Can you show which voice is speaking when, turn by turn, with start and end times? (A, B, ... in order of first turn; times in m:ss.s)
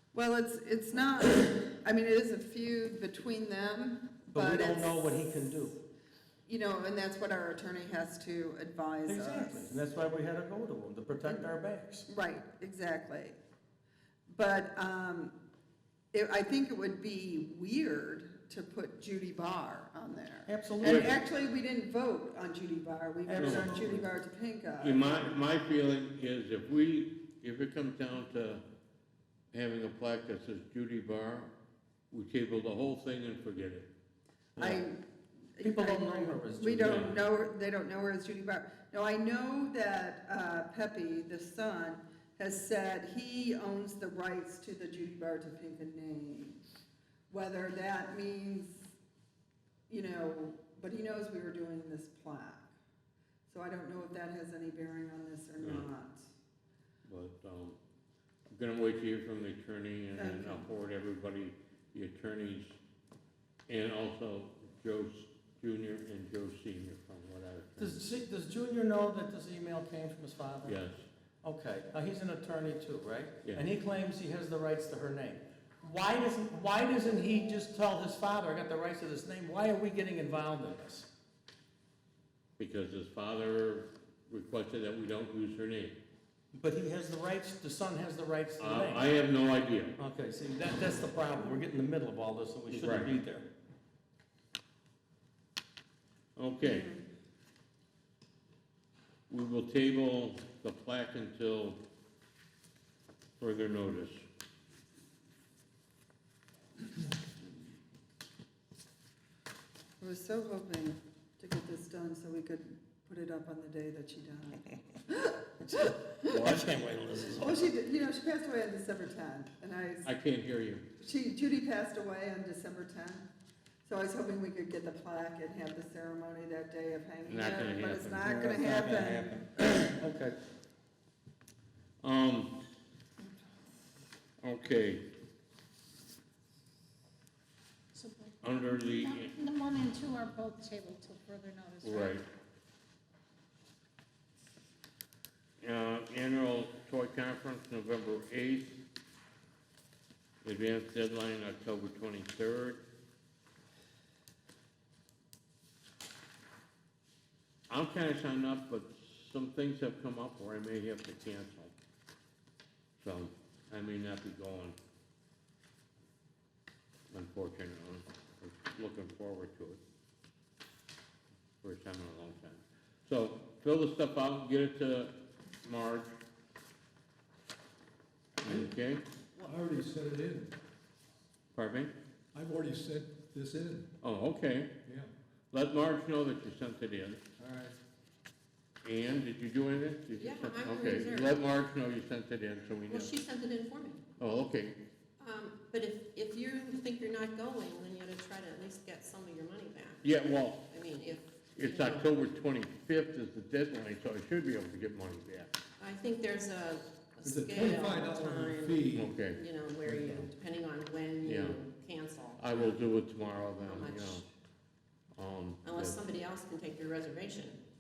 0:00.1-0:05.1 A
0:04.3-0:05.8 B
0:06.5-0:09.8 A
0:09.1-0:12.1 B
0:12.1-0:13.4 A
0:14.3-0:15.4 A
0:16.1-0:25.4 A
0:20.5-0:21.2 B
0:20.8-0:21.1 C
0:23.3-0:24.0 B
0:23.4-0:23.8 C
0:24.8-0:28.6 C
0:29.5-0:31.5 C
0:32.1-0:33.9 C
0:34.6-0:35.0 A
0:34.6-0:34.8 B
0:35.6-0:46.6 A
0:35.6-0:37.2 B
0:36.8-0:37.1 C
0:47.3-0:48.9 A
0:49.9-0:52.7 A
0:53.5-0:56.2 A
0:55.6-0:55.9 C
0:57.0-0:57.8 C
0:58.5-1:02.8 C
1:00.2-1:00.7 A
1:03.7-1:08.0 C
1:07.8-1:10.8 B
1:10.6-1:11.1 C
1:11.4-1:21.1 B
1:22.6-1:26.0 C
1:26.5-1:29.1 B
1:28.6-1:30.0 C
1:30.0-1:33.5 B
1:32.7-1:33.1 C
1:36.4-1:36.9 C
1:36.6-1:37.0 A
1:39.3-1:41.8 C
1:43.4-1:44.3 C
1:50.0-1:56.6 A
1:56.3-1:57.7 B
1:57.4-2:00.1 A
2:00.0-2:00.9 C
2:01.0-2:03.3 A
2:03.9-2:09.4 A
2:07.3-2:08.3 C
2:08.2-2:10.4 B
2:12.0-2:12.6 C
2:14.4-2:15.0 C
2:18.0-2:22.2 D
2:18.4-2:19.3 C
2:21.8-2:22.2 C
2:25.6-2:28.8 C
2:30.4-2:32.8 C
2:37.7-2:41.7 C
2:43.0-2:44.8 C
2:47.1-2:49.8 C
2:51.6-2:56.1 C
2:58.4-2:58.7 E
2:58.4-2:59.0 C
2:59.4-3:00.5 E
3:01.5-3:01.9 C
3:02.3-3:03.9 E
3:04.0-3:04.8 C
3:05.5-3:07.2 C
3:07.4-3:07.7 B
3:08.8-3:13.2 C
3:10.2-3:11.4 F
3:12.9-3:14.0 F
3:14.2-3:14.8 C
3:15.2-3:22.3 F
3:20.0-3:20.6 C
3:21.6-3:25.5 C
3:25.8-3:32.8 F
3:27.2-3:29.2 E
3:28.9-3:30.2 C
3:31.2-3:31.6 C
3:32.4-3:34.2 C
3:33.6-3:34.2 F
3:35.2-3:36.0 C
3:35.6-3:37.6 F